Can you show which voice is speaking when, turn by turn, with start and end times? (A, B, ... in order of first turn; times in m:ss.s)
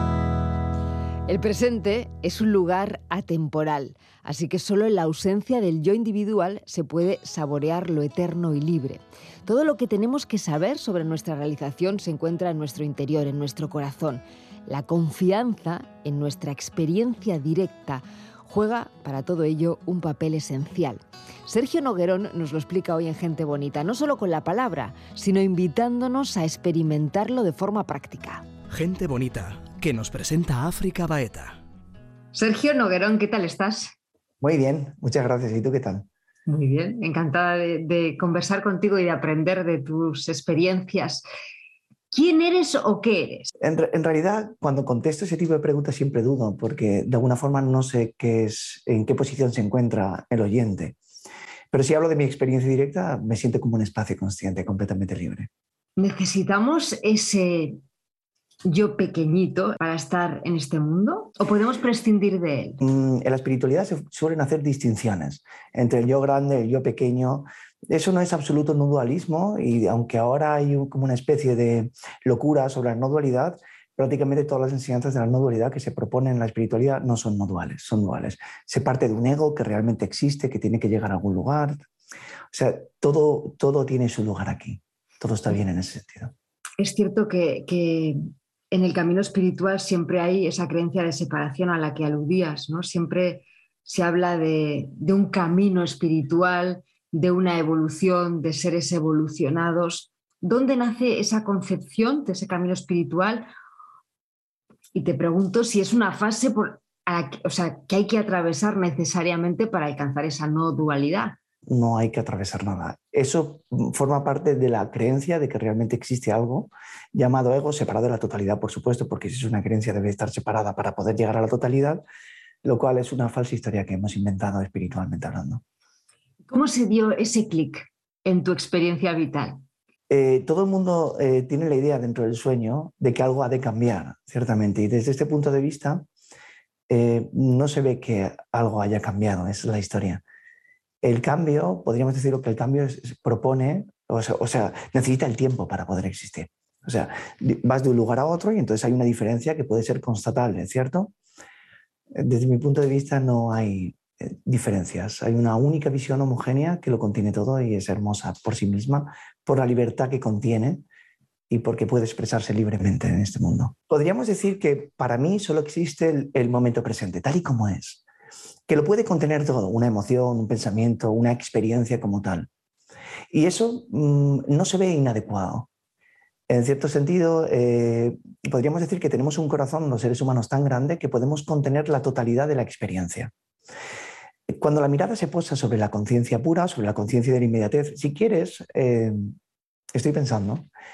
0:01.3-0:28.4 A
0:28.7-0:31.6 B
0:32.3-0:33.9 A
0:34.4-0:36.1 C
0:36.5-0:41.2 A
0:42.1-0:43.5 A
0:43.6-0:51.0 C
0:51.7-0:55.5 C
0:56.0-0:57.8 A
0:58.6-1:02.8 A
1:02.8-1:21.8 C
1:22.5-1:26.3 C
1:26.8-1:43.5 A
1:44.9-1:51.4 A
1:51.7-2:02.0 C
2:02.6-2:05.6 C
2:06.5-2:09.6 A
2:10.1-2:16.1 C
2:16.9-2:20.2 C
2:21.0-2:31.1 C
2:32.1-2:40.8 C
2:41.5-2:48.0 C
2:48.7-2:52.5 C
2:53.3-2:55.7 C
2:56.5-3:03.3 C
3:04.5-3:09.4 C
3:09.9-3:10.7 C